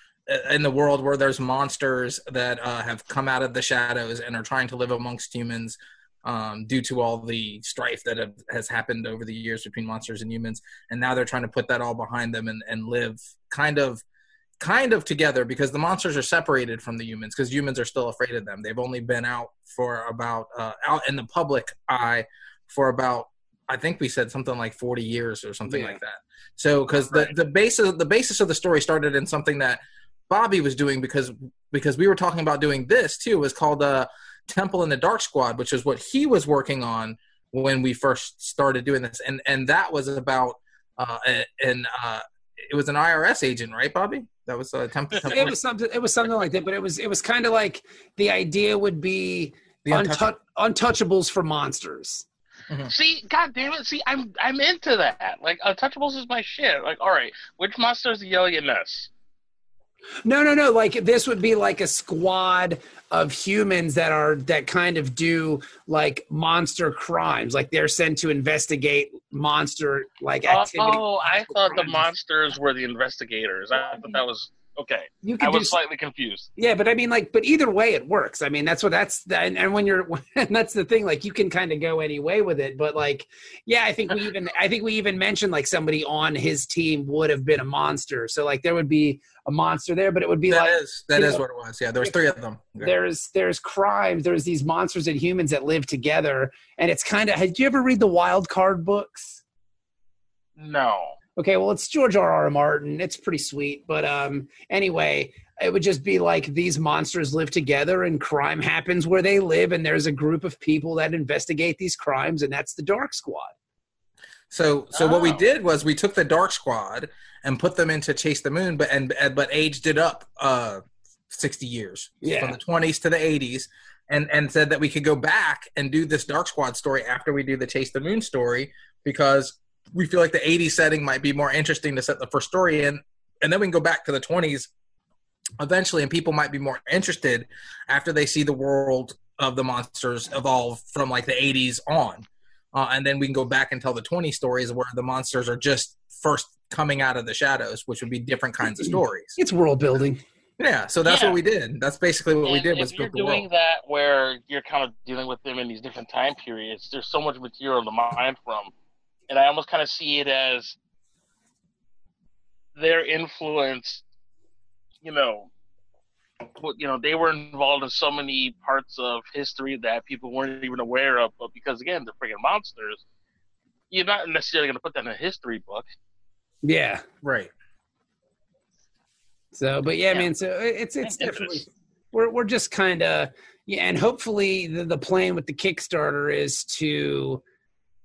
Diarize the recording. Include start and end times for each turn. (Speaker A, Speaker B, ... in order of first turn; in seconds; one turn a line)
Speaker A: 0.3-14.0
Speaker A: 14.6-45.5
Speaker B: 25.7-26.0
Speaker B: 45.2-52.2
Speaker A: 49.9-50.3
Speaker C: 52.9-59.1
Speaker B: 60.2-72.1
Speaker C: 70.5-76.5
Speaker B: 73.8-74.2
Speaker B: 75.2-75.8
Speaker B: 76.6-91.4
Speaker A: 90.5-92.9
Speaker B: 92.8-99.4
Speaker C: 100.6-101.2
Speaker B: 101.4-113.5
Speaker A: 114.5-134.7
Speaker C: 114.9-115.4
Speaker B: 122.2-122.6
Speaker A: 135.6-149.4
Speaker B: 148.7-150.2
Speaker A: 150.6-153.4
Speaker C: 151.1-151.4
Speaker C: 152.4-158.7
Speaker C: 159.3-160.8
Speaker C: 162.8-164.1
Speaker C: 165.0-165.5
Speaker C: 166.6-173.0
Speaker C: 173.9-175.8
Speaker B: 176.6-177.0
Speaker A: 177.2-177.5
Speaker B: 179.5-187.4
Speaker C: 181.1-181.6